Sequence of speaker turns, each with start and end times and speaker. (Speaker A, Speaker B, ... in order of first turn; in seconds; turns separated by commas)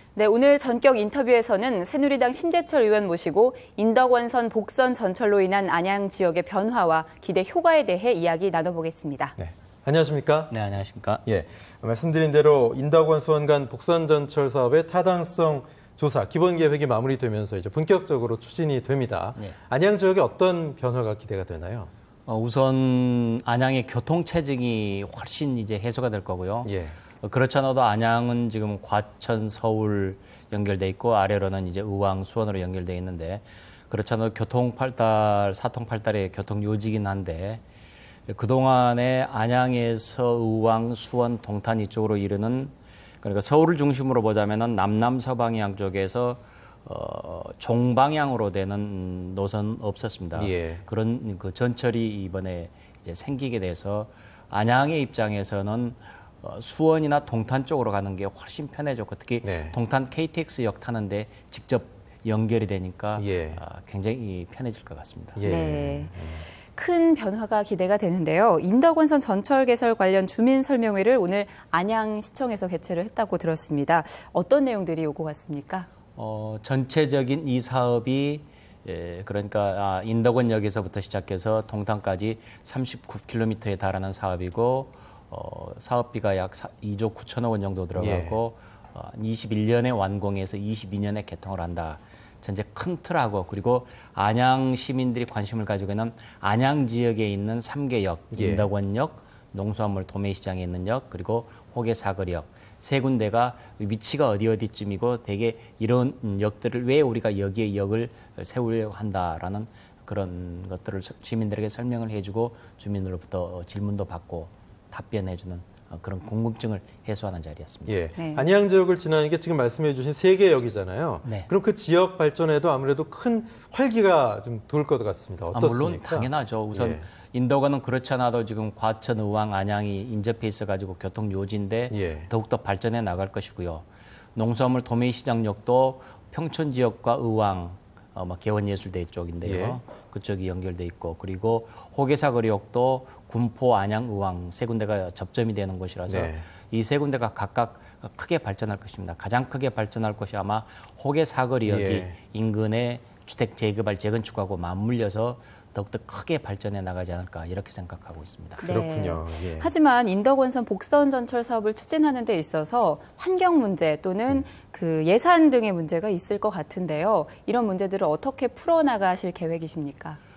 Speaker A: 0.1-9.3, Speaker B: 9.4-10.5, Speaker C: 10.5-11.2, Speaker B: 11.2-21.9, Speaker C: 22.3-37.6, Speaker B: 26.6-27.0, Speaker C: 38.3-65.4, Speaker B: 50.3-50.8, Speaker B: 59.4-59.8, Speaker B: 63.2-63.6, Speaker B: 65.4-66.5, Speaker A: 65.5-66.1, Speaker A: 66.7-75.9, Speaker C: 76.1-118.0, Speaker B: 88.0-88.4, Speaker B: 98.3-98.7, Speaker B: 117.9-127.0, Speaker A: 118.2-118.5, Speaker C: 121.2-121.5, Speaker C: 125.5-158.6, Speaker B: 131.9-132.3, Speaker B: 139.4-139.8, Speaker B: 146.1-146.4, Speaker B: 151.7-152.1, Speaker B: 158.6-159.7, Speaker A: 158.6-170.2